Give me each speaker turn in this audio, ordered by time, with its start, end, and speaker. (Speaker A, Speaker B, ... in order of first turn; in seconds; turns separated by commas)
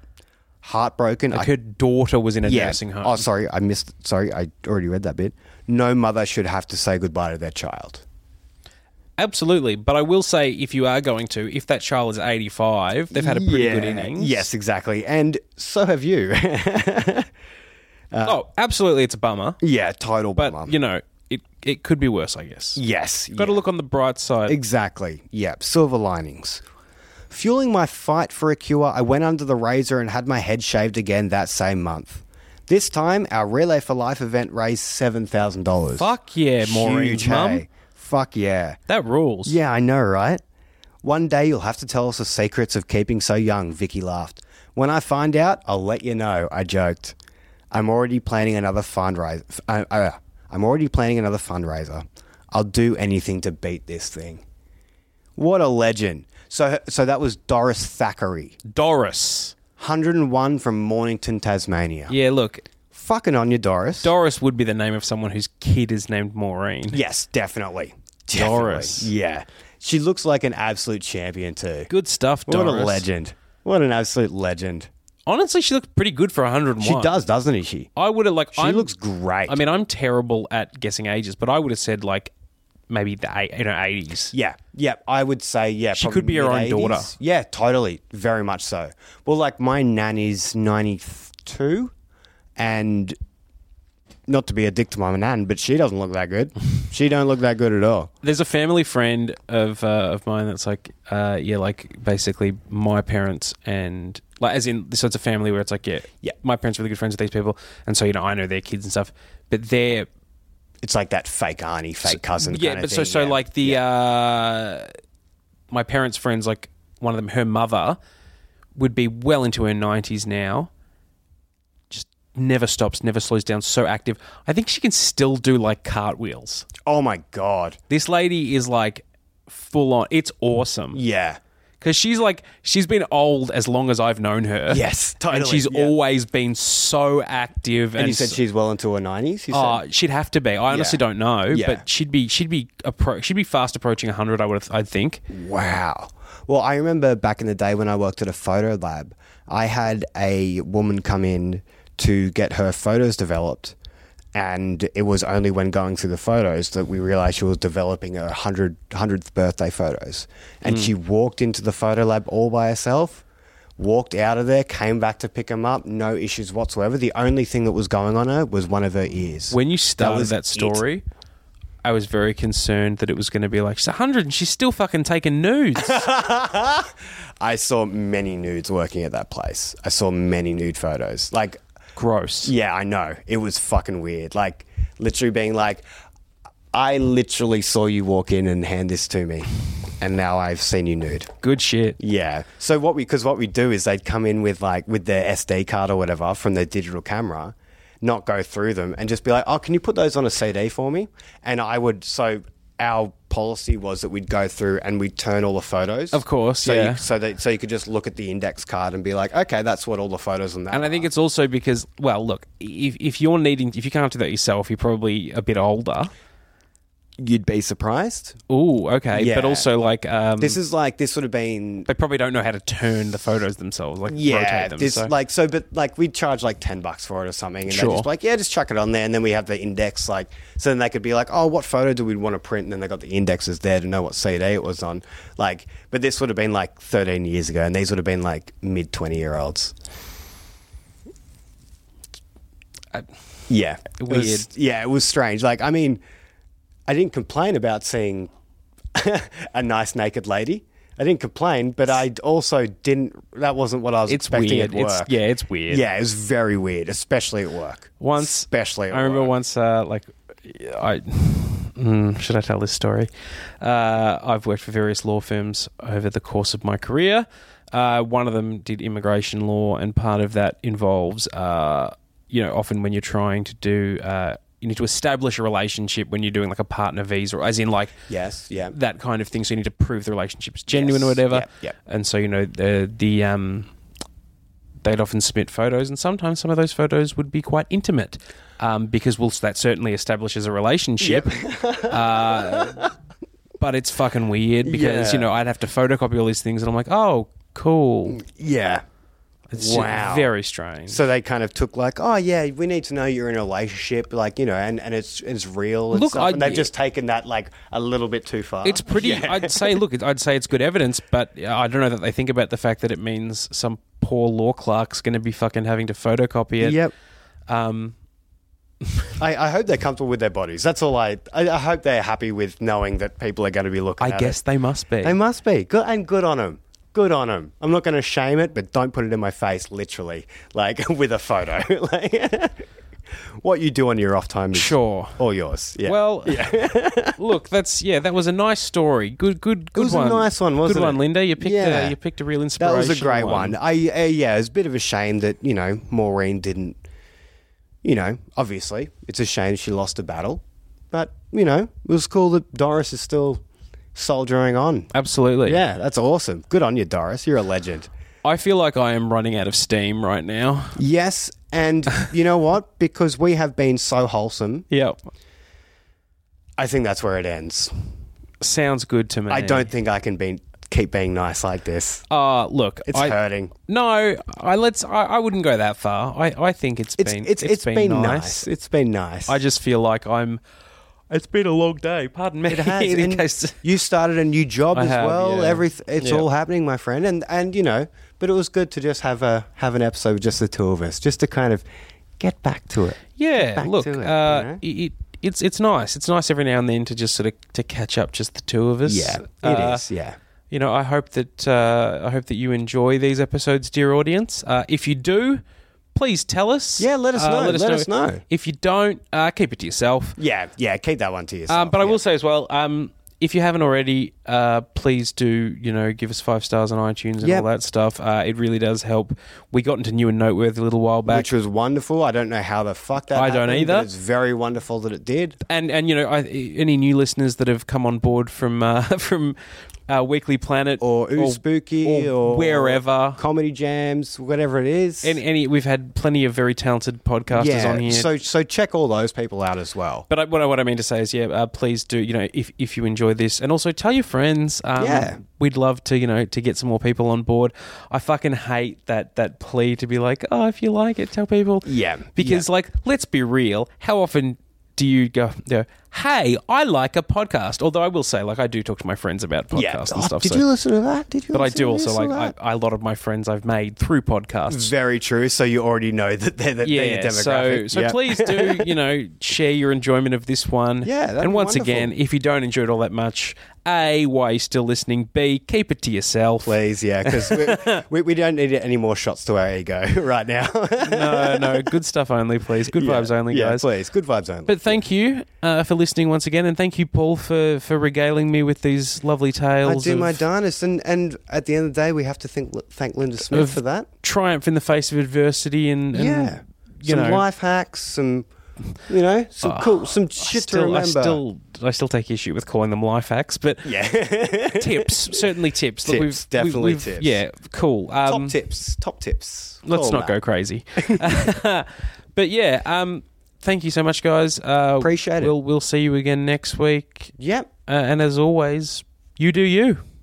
Speaker A: 0.6-1.5, Speaker B: 1.3-3.2, Speaker A: 2.5-8.0, Speaker B: 9.2-14.5, Speaker A: 13.1-17.3, Speaker A: 18.1-18.4, Speaker B: 18.2-19.6, Speaker A: 19.6-20.8, Speaker B: 20.4-22.8, Speaker A: 22.8-23.6, Speaker B: 23.4-24.6, Speaker A: 24.5-26.6, Speaker A: 27.3-36.1, Speaker B: 36.0-37.6, Speaker A: 36.6-38.8, Speaker B: 38.9-39.6, Speaker A: 39.5-40.4, Speaker A: 41.0-47.2, Speaker A: 47.7-54.4, Speaker A: 55.4-58.6, Speaker B: 58.7-59.6, Speaker A: 59.8-62.1, Speaker B: 62.1-62.6, Speaker A: 62.9-64.1, Speaker B: 64.0-67.0, Speaker A: 66.9-71.9, Speaker B: 68.3-69.1, Speaker B: 71.9-73.1, Speaker A: 72.5-74.9, Speaker B: 75.3-77.1, Speaker A: 76.8-77.9, Speaker B: 78.0-78.9, Speaker A: 78.6-79.6, Speaker B: 79.5-82.3, Speaker B: 82.9-84.3, Speaker A: 84.3-91.9, Speaker B: 86.0-87.1, Speaker A: 92.6-93.2, Speaker A: 94.3-98.1, Speaker B: 98.2-110.1, Speaker A: 110.8-113.8, Speaker B: 112.0-114.9, Speaker B: 115.7-118.0, Speaker B: 118.8-120.7, Speaker B: 121.9-126.7, Speaker A: 126.8-127.8, Speaker B: 127.9-131.0, Speaker A: 130.9-131.4, Speaker B: 131.8-138.4, Speaker A: 134.7-135.9, Speaker A: 138.0-139.8, Speaker B: 139.5-145.2, Speaker A: 140.7-141.8, Speaker A: 145.3-153.8, Speaker A: 154.3-163.2, Speaker B: 160.7-160.9, Speaker A: 163.8-170.8, Speaker B: 169.5-171.0, Speaker B: 171.8-176.1, Speaker A: 175.8-181.6, Speaker B: 182.0-182.5, Speaker A: 182.4-185.8, Speaker A: 186.7-191.3, Speaker B: 191.4-192.0, Speaker A: 192.0-211.1, Speaker B: 206.1-207.0, Speaker B: 210.7-216.1, Speaker A: 217.2-218.4, Speaker B: 218.5-220.6, Speaker A: 219.1-219.7, Speaker A: 220.4-221.9, Speaker B: 221.9-225.1, Speaker A: 224.1-239.8, Speaker B: 227.7-228.1, Speaker A: 243.5-246.0, Speaker B: 243.9-244.5, Speaker A: 246.9-248.3, Speaker A: 248.9-255.1, Speaker B: 254.1-255.8, Speaker A: 255.7-259.3, Speaker B: 258.0-278.0, Speaker A: 278.1-278.8, Speaker B: 278.7-283.7, Speaker A: 280.7-281.7, Speaker B: 284.8-292.9, Speaker A: 291.0-292.9, Speaker B: 293.6-298.2, Speaker A: 294.6-295.3, Speaker A: 298.1-298.8, Speaker B: 299.5-301.0, Speaker A: 299.6-300.3, Speaker A: 300.9-309.8, Speaker B: 305.9-306.7, Speaker B: 308.6-316.8, Speaker A: 316.6-316.9, Speaker B: 317.5-318.0, Speaker A: 319.2-324.4, Speaker B: 324.0-325.2, Speaker A: 325.0-332.6, Speaker A: 333.4-337.2, Speaker B: 334.5-335.2, Speaker B: 335.8-343.6, Speaker A: 339.8-342.0, Speaker A: 342.6-346.8, Speaker A: 347.8-353.4, Speaker A: 353.9-354.9, Speaker B: 354.9-355.6, Speaker A: 355.5-357.9, Speaker B: 358.2-360.8, Speaker A: 360.8-364.7, Speaker B: 364.7-364.9, Speaker A: 366.6-367.9, Speaker B: 368.4-369.7, Speaker A: 369.3-372.1, Speaker B: 372.1-378.5, Speaker A: 372.9-373.5, Speaker A: 377.0-379.4, Speaker B: 379.3-380.4, Speaker B: 381.1-383.6, Speaker A: 382.5-391.6, Speaker B: 384.7-386.3, Speaker A: 392.2-394.6, Speaker B: 393.2-399.8, Speaker A: 398.9-400.2, Speaker B: 400.5-405.4, Speaker B: 405.9-410.2, Speaker A: 406.8-408.2, Speaker A: 410.2-412.0, Speaker B: 411.5-421.3, Speaker A: 417.2-417.5, Speaker A: 421.1-425.4, Speaker B: 423.1-423.9, Speaker B: 425.5-429.4, Speaker B: 429.9-433.2, Speaker A: 430.8-435.2, Speaker B: 435.0-438.1, Speaker A: 437.3-440.1, Speaker B: 440.1-460.4, Speaker A: 444.8-445.2, Speaker A: 451.7-452.4, Speaker A: 459.5-462.3, Speaker B: 461.3-464.7, Speaker A: 464.5-468.7, Speaker B: 466.6-477.8, Speaker A: 470.8-471.9, Speaker A: 476.4-481.7, Speaker B: 480.8-483.6, Speaker A: 482.7-484.8, Speaker B: 484.5-490.2, Speaker A: 489.6-493.9, Speaker B: 493.3-497.2, Speaker A: 495.9-498.3, Speaker A: 498.9-501.2, Speaker B: 499.4-503.8, Speaker A: 503.6-505.2, Speaker B: 504.5-508.4, Speaker A: 505.9-507.2, Speaker A: 508.1-510.2, Speaker B: 509.7-517.1, Speaker A: 510.8-511.1, Speaker A: 514.8-515.3, Speaker A: 517.2-517.5, Speaker B: 517.7-519.8